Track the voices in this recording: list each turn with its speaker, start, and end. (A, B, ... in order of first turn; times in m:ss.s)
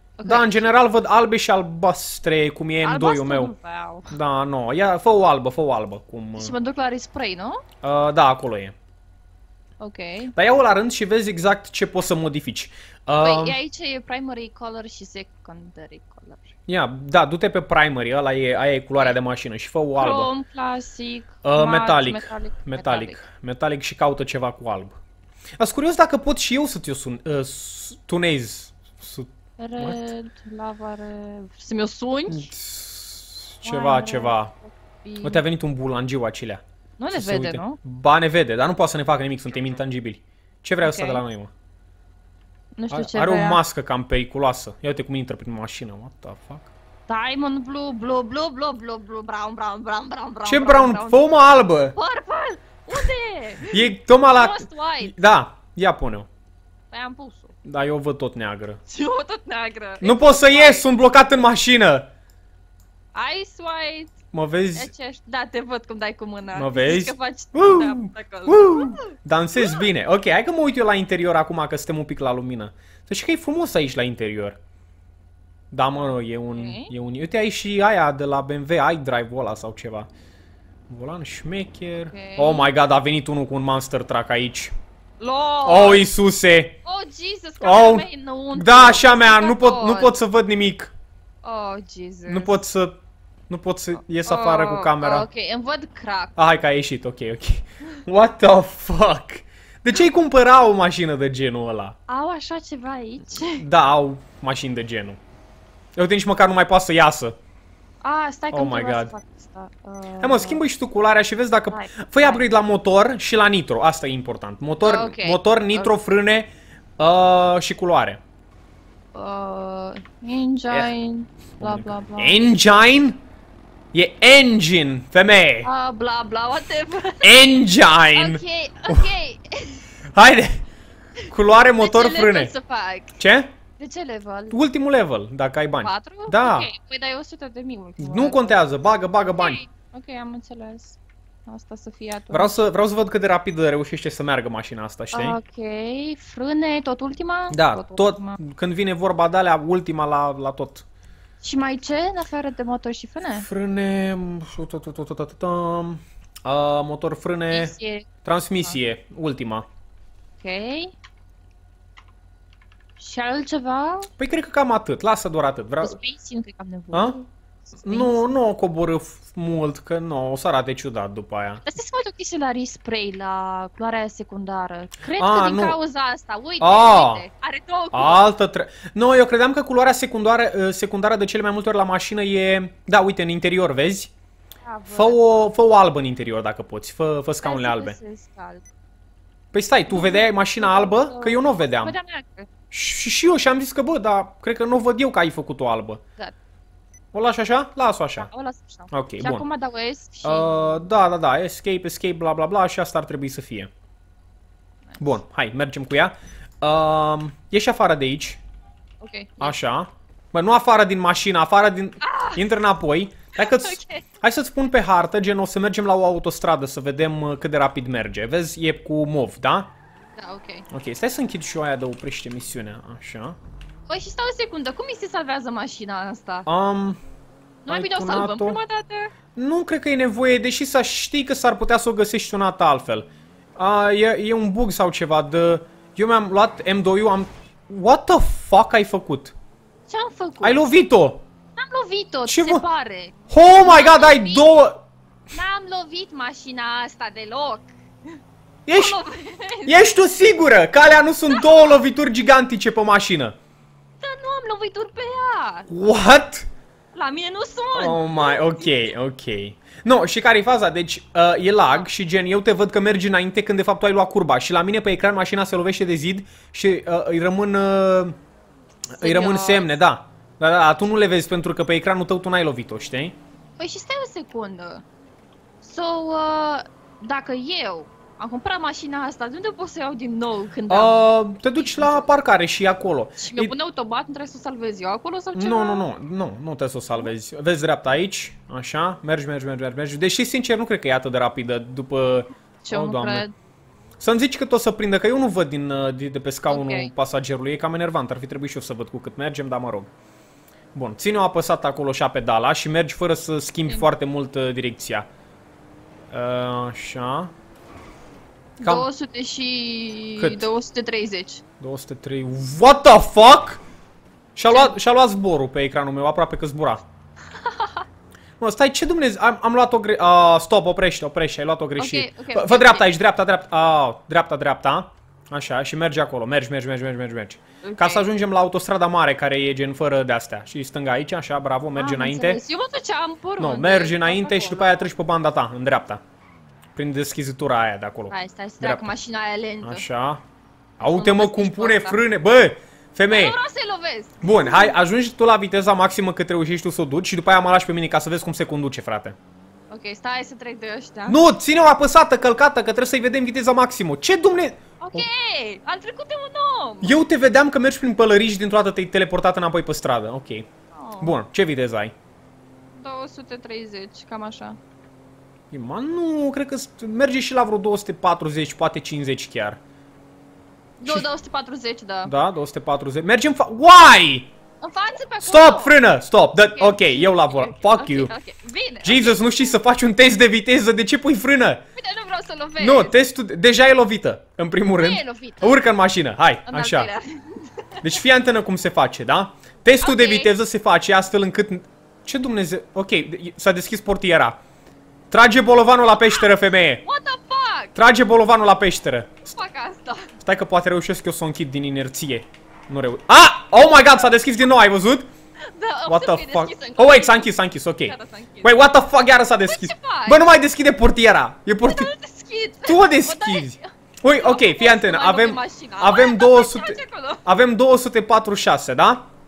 0:00.2-0:00.7 A
0:00.2-0:03.5 B
0:02.8-0:04.2 A
0:04.1-0:06.5 B
0:06.3-0:07.6 A
0:07.8-0:08.7 B
0:09.8-0:10.3 A
0:10.3-0:13.6 B
0:13.2-0:16.5 A
0:16.7-0:20.3 B
0:19.9-0:23.2 A
0:21.4-0:25.0 B
0:25.6-0:30.0 B
0:29.6-0:32.5 A
0:32.3-0:34.5 B
0:33.6-0:35.4 A
0:35.2-0:41.5 B
0:37.0-0:37.8 A
0:40.8-0:41.2 A
0:42.8-0:43.6 A
0:42.9-0:46.7 B
0:47.1-0:51.2 A
0:50.4-0:51.9 B
0:51.9-0:55.3 A
0:53.6-0:56.3 B
0:56.9-0:57.6 A
0:57.6-0:58.8 B
0:58.9-1:00.9 A
1:00.0-1:02.1 B
1:03.1-1:04.2 A
1:04.3-1:04.9 B
1:04.7-1:09.9 A
1:06.5-1:14.6 B
1:15.7-1:20.1 B
1:16.5-1:16.9 A
1:20.9-1:24.7 B
1:21.9-1:22.7 A
1:25.2-1:26.1 A
1:25.6-1:26.8 B
1:26.8-1:30.1 A
1:27.6-1:30.9 B
1:31.4-1:32.6 A
1:32.2-1:33.0 B
1:33.5-1:35.2 B
1:34.2-1:36.4 A
1:36.4-1:42.0 B
1:42.1-1:43.6 A
1:43.3-1:45.2 B
1:46.0-1:47.4 B
1:48.0-1:50.6 A
1:48.5-1:49.1 B
1:50.2-1:58.2 B
1:51.7-1:52.5 A
1:54.8-1:55.9 A
1:59.1-2:02.5 A
2:01.6-2:03.2 B
2:03.9-2:05.7 B
2:05.6-2:07.4 A
2:07.2-2:09.0 B
2:08.1-2:09.8 A
2:10.1-2:10.6 B
2:11.2-2:13.2 A
2:11.2-2:12.5 B
2:13.2-2:13.5 B
2:13.8-2:14.6 A
2:14.5-2:16.7 B
2:15.7-2:18.6 A
2:18.0-2:19.6 B
2:19.4-2:22.6 A
2:22.3-2:25.4 B
2:25.1-2:28.4 A
2:27.5-2:30.8 B
2:31.4-2:33.5 A
2:33.3-2:39.6 B
2:37.5-2:38.1 A
2:40.4-2:40.9 A
2:43.0-2:44.1 A
2:44.2-2:46.0 B
2:45.8-2:48.3 A
2:46.9-2:47.2 B
2:47.8-2:51.6 B
2:51.6-2:58.3 A
2:55.2-2:55.8 B
2:56.6-2:57.2 B
2:57.9-3:04.1 B
3:04.6-3:05.5 A
3:04.9-3:08.0 B
3:07.4-3:08.6 A
3:09.5-3:11.9 B
3:09.9-3:12.5 A
3:12.7-3:16.0 B
3:17.1-3:18.3 B
3:18.2-3:20.9 A
3:18.9-3:19.4 B
3:20.2-3:23.7 B
3:24.9-3:25.2 A
3:25.0-3:28.4 B
3:29.0-3:29.6 A
3:29.4-3:39.7 B
3:32.0-3:32.4 A
3:33.4-3:34.0 A
3:40.2-3:40.7 A
3:40.7-3:43.4 B
3:43.9-3:46.5 A
3:46.5-3:47.0 B
3:47.6-3:49.1 A
3:47.7-3:48.6 B
3:49.3-3:59.3 B
3:59.9-4:00.7 A
4:00.4-4:01.3 B
4:01.6-4:04.5 A
4:02.2-4:02.6 B
4:03.3-4:04.8 B
4:05.3-4:08.2 A
4:08.6-4:09.0 B
4:08.7-4:09.8 A
4:09.6-4:13.4 B
4:11.3-4:11.8 A
4:14.0-4:15.7 A
4:15.7-4:16.5 B
4:16.9-4:18.8 A
4:17.7-4:28.2 B
4:28.9-4:33.2 B
4:29.0-4:29.8 A
4:33.6-4:34.8 A
4:35.6-4:42.1 A
4:40.7-4:43.5 B
4:43.2-4:45.8 A
4:45.4-4:53.2 B
4:52.6-4:53.3 A
4:54.0-4:59.9 B
4:56.5-4:56.9 A
5:00.7-5:05.1 B
5:06.1-5:07.3 B
5:08.6-5:08.8 B
5:08.6-5:11.4 A
5:10.2-5:10.5 B
5:11.6-5:13.6 B
5:14.4-5:16.8 B
5:14.5-5:14.8 A
5:17.3-5:17.8 A
5:18.4-5:32.4 B
5:21.8-5:22.9 A
5:27.6-5:28.1 A
5:31.8-5:34.9 A
5:33.4-5:36.0 B
5:36.7-5:38.9 B
5:38.1-5:39.8 A
5:39.6-5:40.2 B
5:40.8-5:42.0 A
5:40.8-5:43.4 B
5:43.1-5:44.8 A
5:44.2-5:49.2 B
5:49.7-5:51.2 A
5:51.1-5:55.1 B
5:54.8-5:57.0 A
5:56.8-6:00.5 B
6:00.7-6:01.2 A
6:01.0-6:01.9 B
6:02.7-6:04.6 A
6:05.5-6:09.6 B
6:10.8-6:12.1 A
6:12.0-6:14.3 B
6:14.6-6:15.7 A
6:15.2-6:18.1 B
6:16.4-6:19.4 A
6:18.8-6:21.6 B
6:21.8-6:23.0 A
6:22.6-6:26.9 B
6:24.7-6:25.7 A
6:26.4-6:28.0 A
6:27.8-6:34.4 B
6:29.8-6:30.3 A
6:35.1-6:36.8 B
6:36.8-6:37.8 A
6:37.7-6:39.3 B
6:39.2-6:40.1 A
6:40.2-6:45.1 B
6:45.4-6:48.6 A
6:45.9-6:51.9 B
6:49.4-6:50.3 A
6:51.6-6:57.2 A
6:52.6-6:59.1 B